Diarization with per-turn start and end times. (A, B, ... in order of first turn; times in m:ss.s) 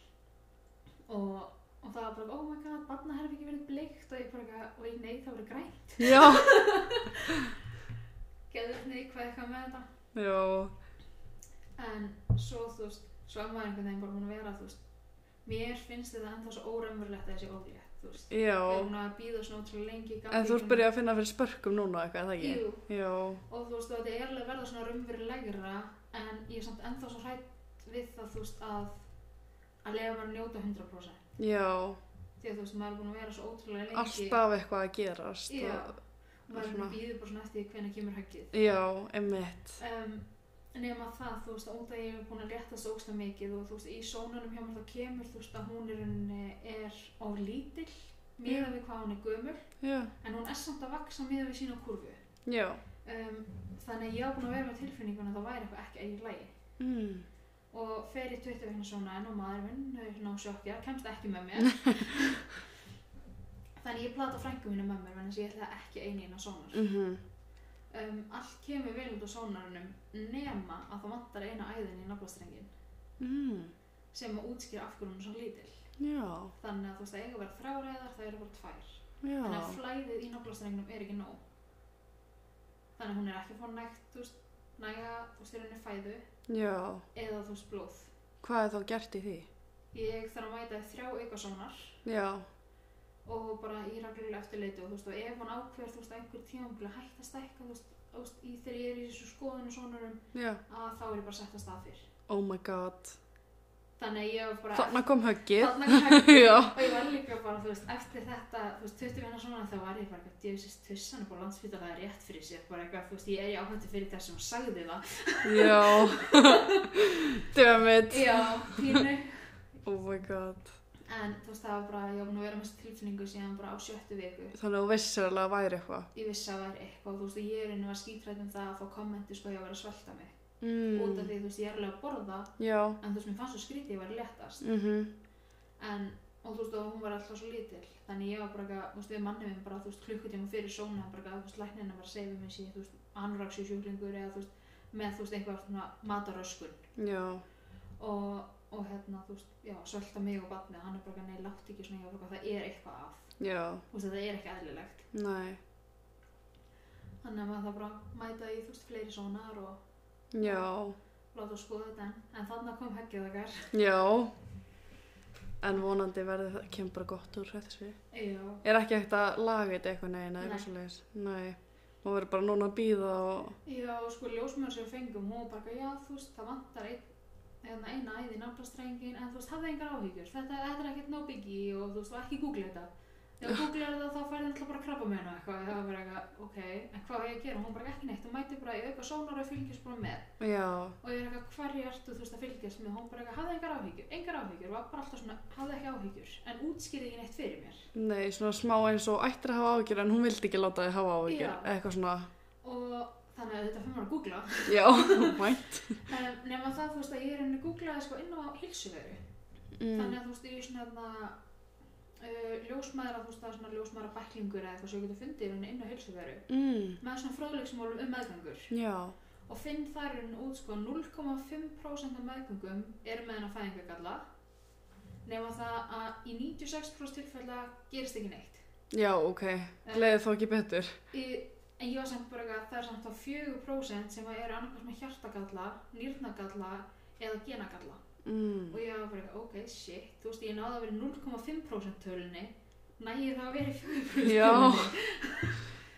0:01.1-0:07.5 A
0:06.0-0:06.8 B
0:08.5-0:09.9 A
0:10.2-0:10.7 B
0:11.8-0:14.8 A
0:15.4-0:20.9 A
0:18.3-0:18.9 B
0:20.3-0:23.4 B
0:22.4-0:22.8 A
0:23.4-0:29.0 A
0:29.8-0:31.2 A
0:31.4-0:32.0 B
0:32.4-0:34.4 A
0:33.9-0:36.0 B
0:35.5-0:38.5 A
0:36.5-0:37.0 B
0:38.5-0:39.8 B
0:39.8-0:49.6 A
0:49.8-0:50.1 B
0:50.2-0:52.2 A
0:52.5-0:52.8 B
0:53.0-0:56.5 A
0:56.8-0:57.3 B
0:57.7-1:02.6 A
1:03.8-1:06.9 A
1:06.7-1:07.2 B
1:07.9-1:12.7 A
1:13.2-1:13.7 B
1:14.1-1:15.8 A
1:16.0-1:16.5 B
1:16.6-1:21.4 A
1:19.2-1:19.8 B
1:23.0-1:26.2 A
1:26.5-1:27.0 B
1:27.1-1:28.1 A
1:28.4-1:29.5 B
1:29.9-1:32.0 A
1:32.0-1:32.5 B
1:33.2-1:42.1 A
1:40.3-1:40.6 B
1:42.3-1:43.2 B
1:44.0-1:57.2 A
1:44.7-1:46.8 B
1:55.4-1:59.0 B
1:58.1-1:59.6 A
1:59.8-2:00.7 B
2:01.1-2:04.6 A
2:04.6-2:06.1 B
2:06.1-2:10.4 A
2:10.6-2:11.3 B
2:10.9-2:14.6 A
2:12.6-2:13.0 B
2:14.6-2:15.1 B
2:15.8-2:26.8 A
2:27.0-2:27.4 B
2:28.0-2:33.3 A
2:33.4-2:33.8 B
2:33.9-2:35.1 A
2:35.1-2:35.6 B
2:37.2-2:39.8 A
2:40.3-2:41.0 B
2:40.4-2:40.7 A
2:41.3-2:43.7 A
2:43.7-2:44.3 B
2:45.6-2:48.0 B
2:48.1-2:48.6 A
2:48.6-2:53.6 B
2:50.4-2:50.7 A
2:53.6-2:57.1 A
2:57.6-3:10.3 A
3:10.4-3:11.0 B
3:11.0-3:17.9 A
3:18.0-3:22.3 B
3:21.3-3:21.7 A
3:22.6-3:29.2 A
3:24.7-3:26.0 B
3:29.8-3:30.2 B
3:29.9-3:31.4 A
3:32.2-3:36.5 A
3:36.5-3:37.0 B
3:37.0-3:38.7 A
3:38.7-3:39.2 B
3:39.5-3:44.2 A
3:45.2-3:48.6 A
3:48.9-3:51.0 B
3:49.8-3:50.2 A
3:51.1-3:58.0 A
3:58.2-3:58.8 B
3:58.7-4:05.7 A
4:04.2-4:05.0 B